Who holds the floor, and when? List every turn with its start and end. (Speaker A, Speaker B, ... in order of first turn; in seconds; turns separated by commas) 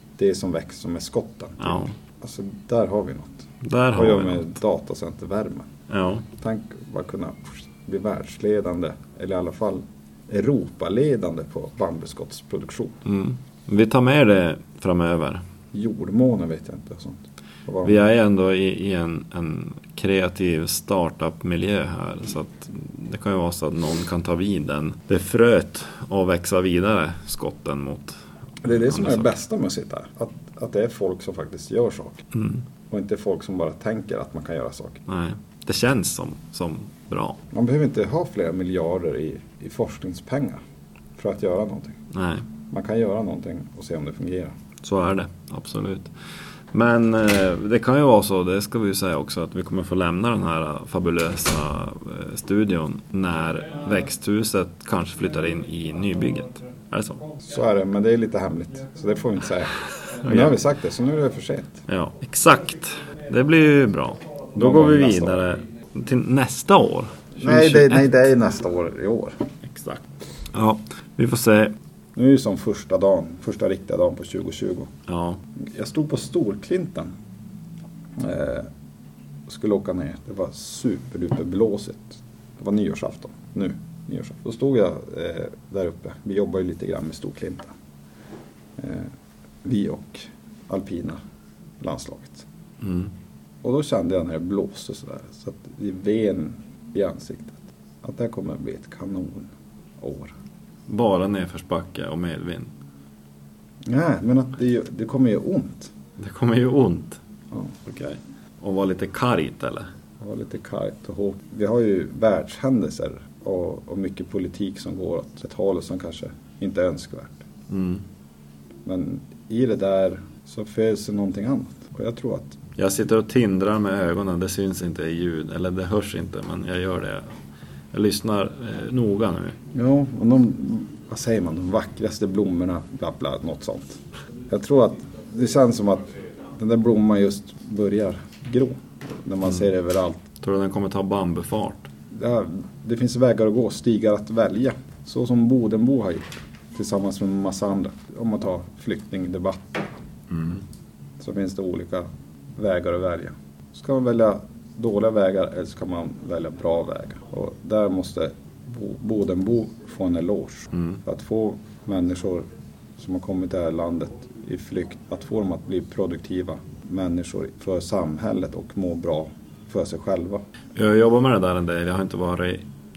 Speaker A: 0.2-5.7, Speaker B: 1.6-1.9, Speaker B: 3.6-4.6, Speaker B: 5.9-6.2, Speaker A: 6.4-13.0, Speaker B: 13.1-15.4, Speaker A: 15.7-18.0, Speaker B: 17.8-29.3, Speaker A: 28.6-32.3, Speaker B: 32.3-32.6, Speaker A: 32.9-35.0, Speaker B: 35.1-37.4, Speaker A: 37.5-40.6, Speaker A: 41.2-42.0, Speaker B: 42.1-42.5, Speaker A: 42.7-44.5, Speaker B: 44.8-46.1, Speaker B: 46.7-57.2, Speaker A: 57.4-61.8, Speaker B: 60.1-60.6, Speaker B: 61.9-68.2, Speaker A: 64.6-65.4, Speaker A: 67.4-69.4, Speaker B: 69.6-71.8, Speaker A: 72.2-74.9, Speaker B: 75.1-75.4, Speaker A: 75.6-77.1, Speaker A: 78.2-78.7, Speaker A: 79.5-87.7, Speaker A: 88.8-89.1, Speaker A: 89.6-91.2, Speaker A: 91.8-92.5, Speaker B: 92.8-93.1, Speaker A: 93.6-100.3, Speaker B: 100.9-102.7, Speaker A: 103.9-105.9, Speaker B: 106.2-107.2, Speaker B: 107.8-109.9, Speaker A: 110.2-117.5, Speaker B: 117.7-118.0, Speaker A: 118.8-122.6, Speaker B: 122.8-127.3, Speaker B: 127.9-129.6, Speaker A: 129.7-140.2, Speaker B: 140.4-141.9, Speaker A: 142.1-149.9, Speaker B: 150.3-150.6, Speaker A: 151.2-170.5, Speaker B: 160.7-161.0, Speaker B: 170.8-172.6